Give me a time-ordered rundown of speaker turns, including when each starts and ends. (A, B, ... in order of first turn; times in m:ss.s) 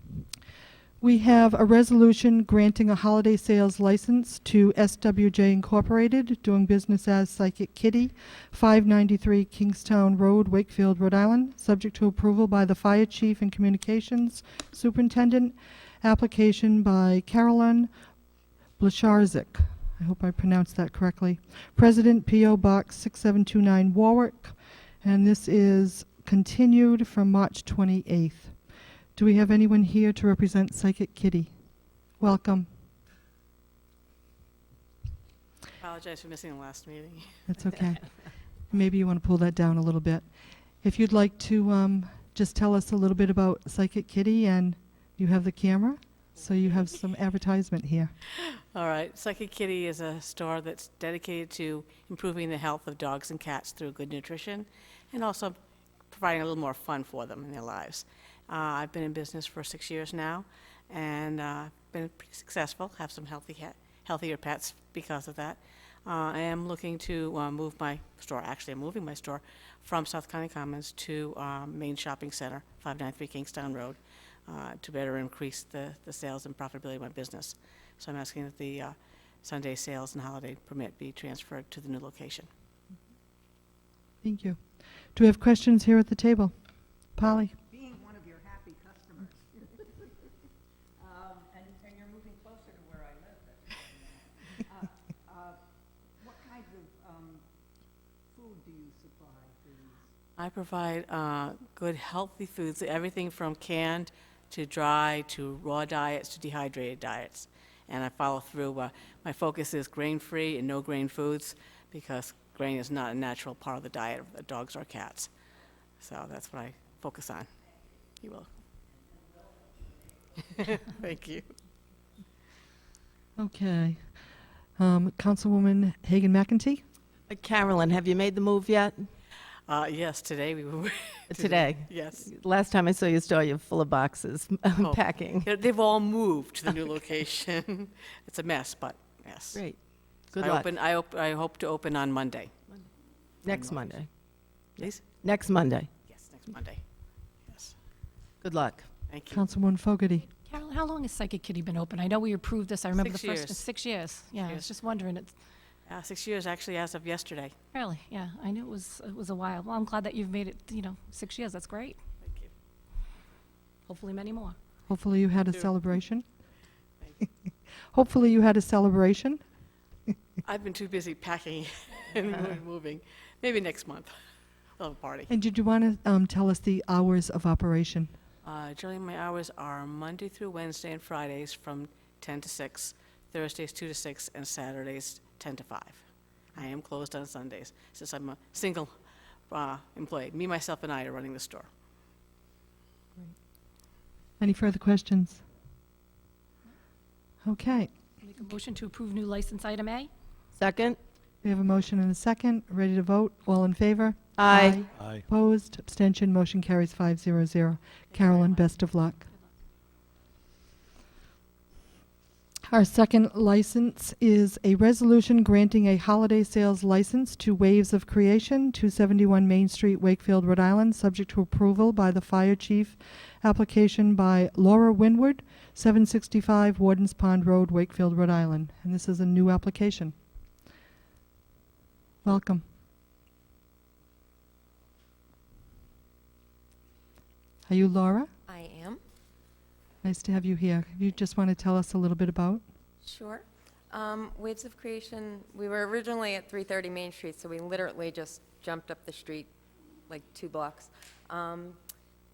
0:01.0-0:17.9 A
0:18.8-0:28.6 A
0:29.2-0:31.5 A
0:32.2-0:32.7 A
0:35.8-0:37.5 B
0:37.5-0:38.1 A
0:38.7-0:40.3 A
0:40.8-0:48.1 A
0:48.7-0:55.6 B
0:56.1-1:22.5 B
1:24.2-1:24.6 A
1:25.1-1:26.5 A
1:27.1-1:27.5 A
1:27.7-1:29.5 C
1:31.0-1:34.2 C
1:35.3-1:35.6 C
1:36.2-1:37.4 C
1:38.3-1:40.0 C
1:40.4-1:55.3 B
1:56.0-1:57.5 B
1:58.2-1:58.5 B
2:00.5-2:01.5 B
2:03.4-2:04.2 A
2:04.8-2:06.8 A
2:07.3-2:09.1 D
2:09.7-2:12.3 B
2:11.3-2:15.5 D
2:14.8-2:22.8 B
2:19.5-2:20.7 D
2:23.4-2:25.9 D
2:23.4-2:24.0 B
2:26.1-2:26.9 B
2:27.4-2:27.8 B
2:28.4-2:28.9 D
2:29.1-2:29.5 B
2:29.3-2:30.3 A
2:30.4-2:35.4 E
2:32.9-2:33.7 B
2:34.3-2:34.7 B
2:35.9-2:37.5 B
2:37.7-2:42.0 E
2:42.2-2:42.5 B
2:43.9-2:44.6 E
2:44.9-2:46.3 A
2:47.9-2:49.4 A
2:50.4-2:54.2 B
2:54.8-2:55.3 B
2:55.3-2:58.2 A
2:58.4-3:09.0 B
3:09.5-3:11.7 B
3:14.4-3:15.4 A
3:17.4-3:17.9 A
3:18.2-3:20.1 E
3:20.5-3:21.0 D
3:21.4-3:29.3 A
3:24.4-3:24.9 D
3:28.1-3:28.7 B
3:32.7-3:50.2 A
3:52.2-3:52.6 A
3:57.7-3:58.3 A
3:58.5-3:59.0 F
4:00.0-4:02.6 A
4:03.0-4:09.5 F
4:10.1-4:11.8 F